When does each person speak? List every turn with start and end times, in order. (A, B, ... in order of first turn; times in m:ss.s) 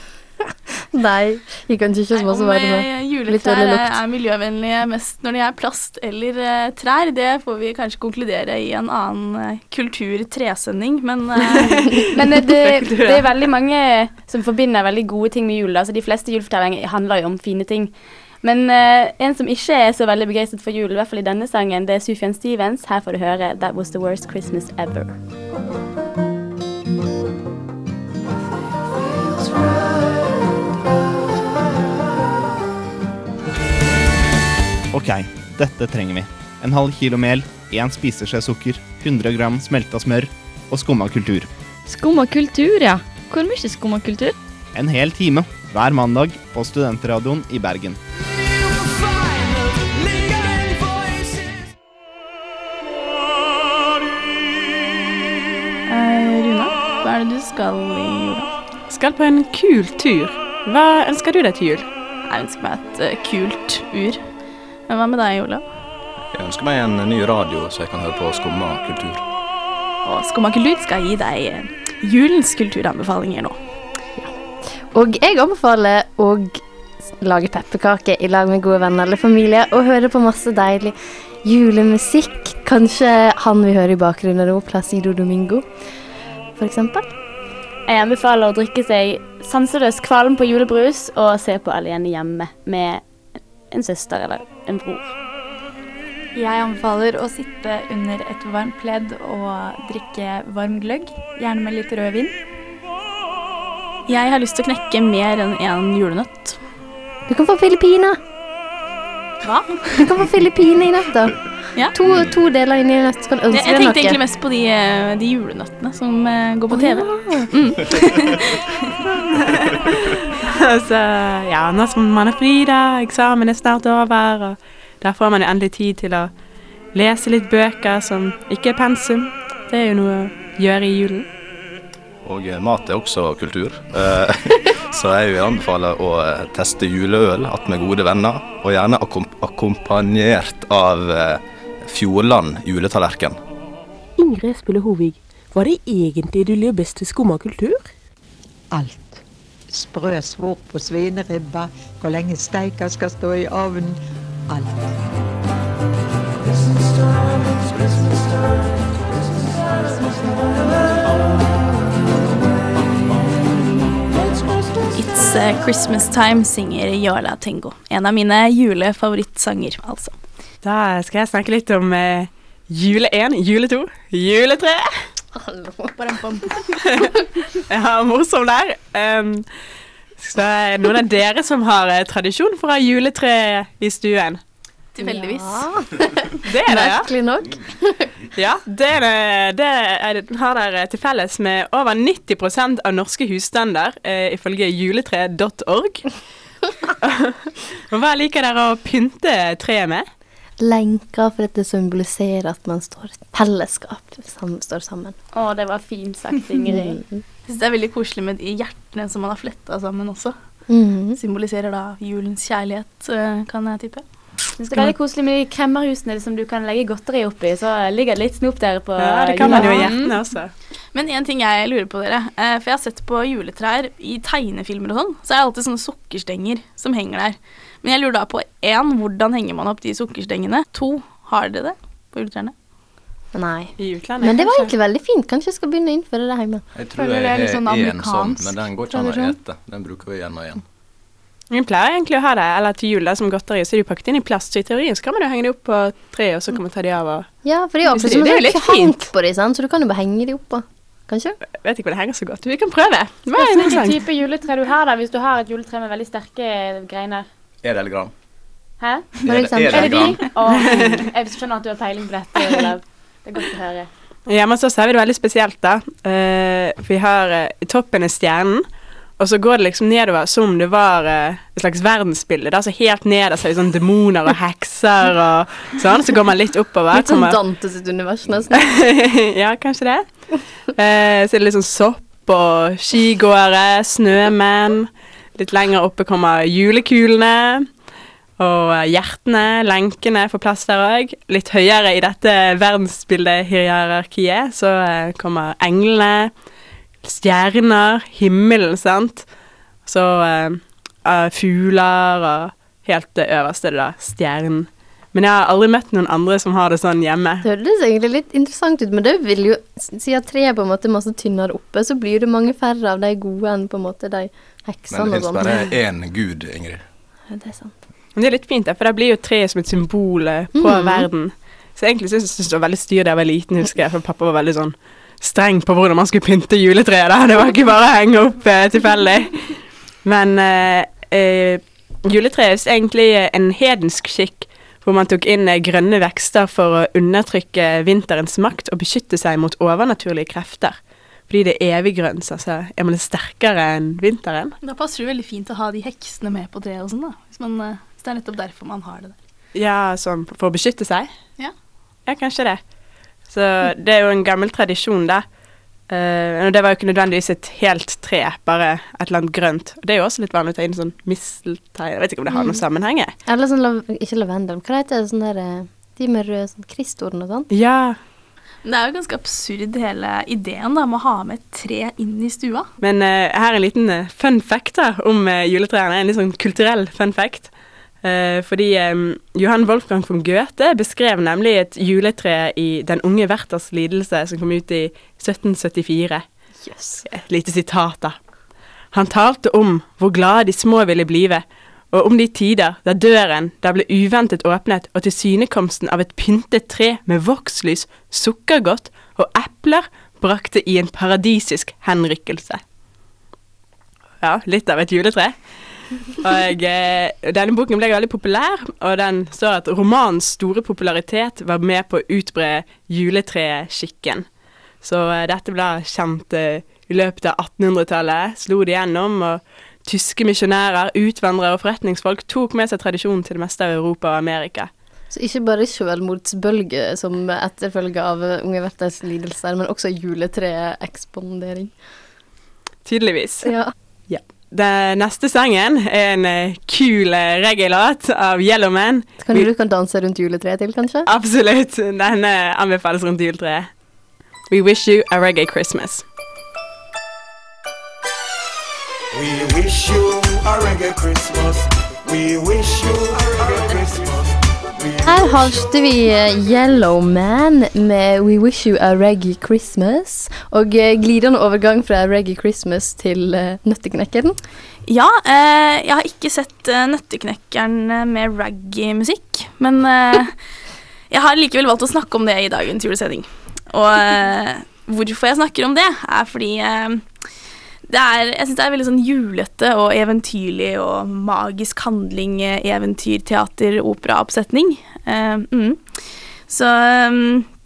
0:00.9-0:04.0 A
0:02.1-0:12.0 B
0:12.2-0:25.2 C
0:12.5-0:13.3 D
0:34.9-0:41.5 E
0:41.9-0:44.4 F
0:44.8-0:48.0 E
0:55.9-0:58.5 B
0:58.9-1:01.9 D
1:02.3-1:05.7 B
1:06.3-1:09.2 G
1:10.0-1:13.6 B
1:14.2-1:25.7 A
1:26.6-1:27.1 A
1:27.9-1:33.0 C
1:33.7-1:35.2 C
1:36.4-1:42.4 H
1:44.1-1:46.6 B
1:47.3-1:48.2 A
1:49.4-1:49.8 B
1:49.9-1:54.2 A
1:52.0-1:52.3 G
1:53.5-1:58.5 B
1:56.7-1:57.6 A
1:59.3-1:59.7 D
2:00.5-2:06.3 D
2:06.9-2:11.3 D
2:12.2-2:23.4 G
2:24.2-2:27.9 I
2:28.7-2:34.9 J
2:44.9-2:50.2 B
2:50.6-2:55.0 D
2:55.3-2:56.0 A
2:56.0-2:56.9 B
2:57.7-2:59.5 D
3:00.2-3:04.4 D
3:04.9-3:05.7 B
3:05.0-3:08.1 A
3:06.4-3:07.1 D
3:08.4-3:16.2 D
3:17.0-3:20.1 D
3:20.6-3:25.2 A
3:25.3-3:27.0 C
3:26.7-3:27.2 A
3:27.5-3:30.4 B
3:30.7-3:31.2 A
3:31.2-3:34.0 B
3:34.6-3:40.1 C
3:39.0-3:40.5 D
3:40.9-3:52.5 B
3:53.3-3:56.6 A
3:53.8-3:54.7 D
3:56.8-4:00.6 G
3:56.9-3:59.3 H
4:01.5-4:07.3 D
4:07.4-4:11.4 A
4:07.9-4:09.1 D
4:11.6-4:14.0 D
4:13.4-4:17.3 C
4:17.6-4:18.1 G
4:18.8-4:23.9 C
4:19.3-4:20.2 A
4:19.3-4:20.3 G
4:24.3-4:28.7 D
4:29.2-4:37.4 D
4:36.9-4:38.8 A
4:38.6-4:47.7 D
4:48.4-4:56.3 D
4:57.0-4:59.3 D
4:59.8-5:07.4 D
5:07.4-5:15.6 A
5:14.9-5:16.8 G
5:17.3-5:17.8 A
5:18.2-5:44.6 D
5:20.6-5:21.1 A
5:44.6-5:49.2 B
5:49.5-5:51.1 D
5:52.1-5:52.7 D
5:53.2-5:55.3 D
5:55.9-6:03.1 D
6:02.3-6:02.6 A
6:03.2-6:07.5 A
6:07.5-6:08.0 D
6:08.6-6:12.7 B
6:12.8-6:26.3 D
6:26.7-6:27.0 A
6:27.1-6:28.2 D
6:28.9-6:42.6 D
6:44.2-7:04.7 D
7:05.1-7:11.7 A
7:12.8-7:19.5 D
7:13.4-7:13.7 A
7:19.2-7:21.1 A
7:21.1-7:23.9 D
7:24.5-7:26.1 D
7:29.1-7:35.2 K
7:35.0-7:44.4 A
7:44.8-7:50.6 B
7:51.1-7:57.3 B
7:57.9-8:07.5 B